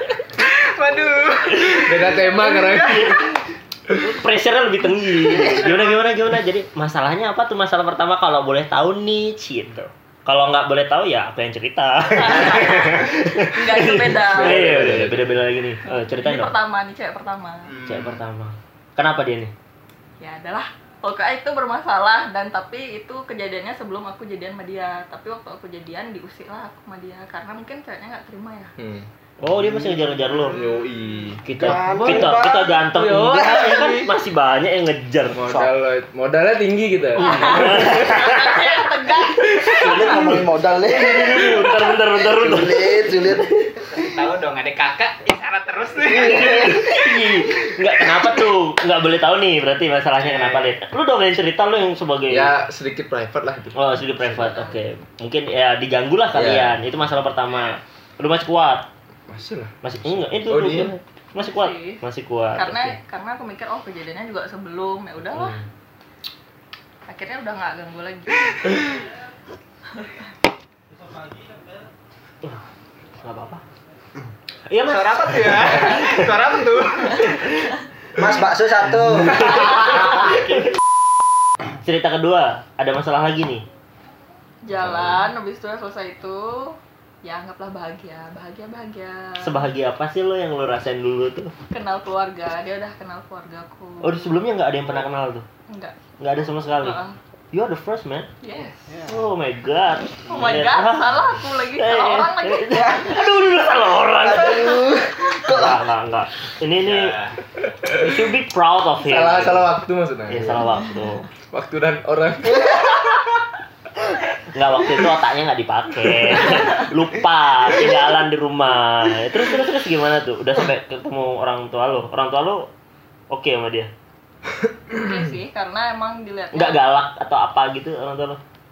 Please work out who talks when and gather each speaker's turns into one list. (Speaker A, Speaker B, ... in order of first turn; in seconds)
Speaker A: 0.3-3.2, 17.7-18.2, 44.0-46.8, 74.8-77.5, 106.9-107.3
Speaker B: 1.7-3.3, 14.2-15.4, 28.8-29.1, 30.5-34.1, 35.3-38.5, 50.2-50.7, 52.3-54.5, 56.3-56.8, 59.3-59.8, 60.4-60.9, 109.0-110.6, 111.5-113.2
Speaker C: 2.4-3.2, 4.0-16.5, 17.9-19.5, 29.4-30.6, 31.4-35.4, 37.2-38.5, 39.8-43.4, 46.1-52.5, 53.8-58.9, 59.8-63.0, 65.3-65.6, 73.2-73.6, 74.7-76.0, 79.5-80.3, 81.8-83.7, 89.4-91.5, 94.0-95.5, 96.2-97.0, 97.5-98.3, 99.1-107.2, 107.9-109.7, 110.3-111.3, 114.5-122.7, 123.3-123.9, 126.5-128.4
Speaker D: 12.1-14.7, 15.8-17.7, 20.2-28.8, 37.2-39.9, 61.4-62.0, 62.5-65.6, 67.1-68.8, 84.7-89.7, 91.7-94.4, 95.7-96.0, 96.8-97.2, 98.4-98.9, 100.3-103.2, 124.9-126.8
Speaker E: 31.6-33.8, 35.5-35.7, 39.6-44.1, 46.1-46.9, 78.2-79.7, 104.2-105.8